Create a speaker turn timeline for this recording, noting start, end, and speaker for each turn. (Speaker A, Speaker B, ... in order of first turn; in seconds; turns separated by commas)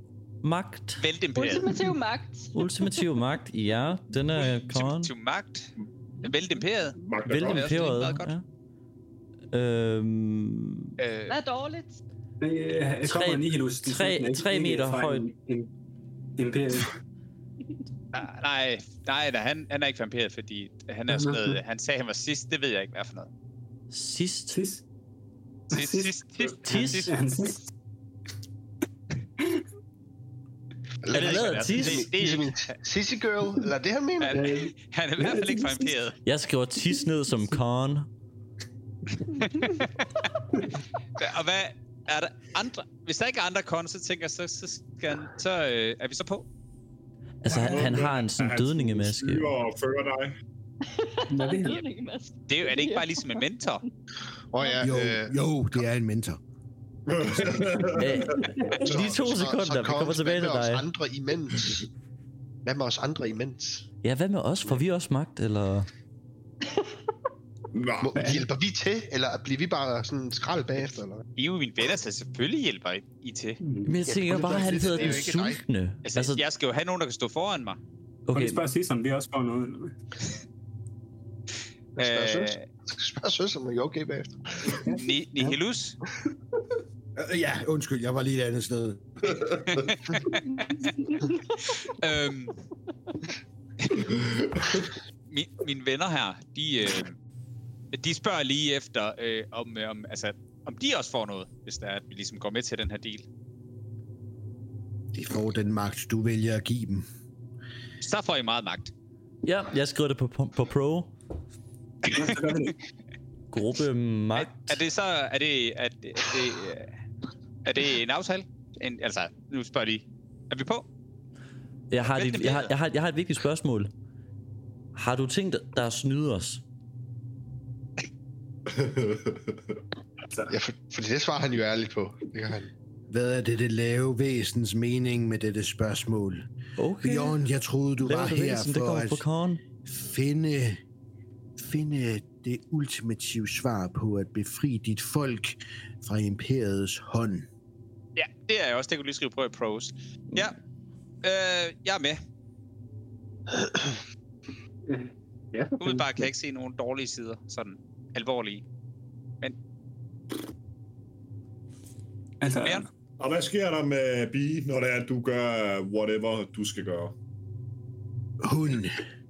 Speaker A: 0.4-1.1, Speaker B: 1.0-1.8, Speaker C: 1.3-3.1, Speaker A: 2.5-5.1, Speaker B: 4.5-8.3, Speaker D: 7.0-7.9, Speaker A: 7.2-8.4, Speaker A: 9.5-10.9, Speaker B: 11.0-11.4, Speaker C: 11.3-12.0, Speaker E: 12.4-15.7, Speaker A: 13.0-15.3, Speaker E: 16.4-17.0, Speaker B: 18.1-23.3, Speaker E: 21.1-21.6, Speaker A: 23.9-24.6, Speaker E: 24.5-24.8, Speaker B: 25.7-27.1, Speaker E: 25.7-27.6, Speaker A: 26.6-27.1, Speaker F: 31.0-34.4, Speaker A: 31.1-32.1, Speaker B: 31.1-32.7, Speaker B: 34.2-36.2, Speaker E: 34.3-36.0, Speaker A: 36.2-38.1, Speaker B: 39.4-40.0, Speaker B: 41.2-46.4, Speaker A: 47.4-49.5, Speaker D: 47.5-50.4, Speaker C: 50.9-53.8, Speaker E: 51.3-51.8, Speaker B: 52.5-53.8, Speaker F: 54.5-55.3, Speaker C: 54.6-54.9, Speaker G: 54.8-56.4, Speaker D: 57.1-58.5, Speaker A: 57.9-60.9, Speaker E: 58.6-58.8, Speaker F: 58.8-61.9, Speaker F: 62.6-63.9, Speaker A: 64.0-65.9, Speaker D: 67.7-68.2, Speaker F: 68.0-71.2, Speaker E: 68.1-68.5, Speaker B: 71.4-73.6, Speaker E: 73.6-74.8, Speaker A: 73.8-76.4, Speaker F: 74.0-75.6, Speaker B: 76.0-77.8, Speaker A: 78.3-78.6, Speaker E: 78.3-79.9, Speaker F: 82.0-84.8, Speaker B: 82.0-82.6, Speaker E: 84.8-85.5, Speaker B: 85.0-86.0, Speaker G: 87.2-89.6, Speaker B: 89.7-90.9, Speaker B: 91.6-92.5, Speaker D: 94.1-94.8, Speaker B: 95.3-97.2, Speaker B: 97.9-103.2, Speaker G: 105.1-107.0, Speaker B: 108.0-108.9, Speaker A: 109.4-111.1, Speaker E: 112.1-112.8, Speaker A: 113.5-114.8, Speaker B: 114.3-116.9, Speaker B: 117.6-120.8, Speaker A: 121.9-123.9, Speaker B: 122.0-122.7, Speaker A: 124.9-126.6, Speaker D: 128.7-129.8, Speaker F: 130.5-132.7, Speaker G: 133.1-136.5, Speaker A: 136.8-137.4, Speaker G: 137.0-139.2, Speaker A: 138.0-139.6, Speaker G: 139.8-140.8, Speaker G: 141.6-147.5, Speaker B: 148.2-150.6, Speaker B: 151.2-152.2, Speaker E: 154.9-156.3, Speaker B: 155.8-158.6, Speaker E: 162.4-162.9, Speaker B: 162.5-162.8, Speaker D: 163.2-167.1, Speaker G: 168.4-169.0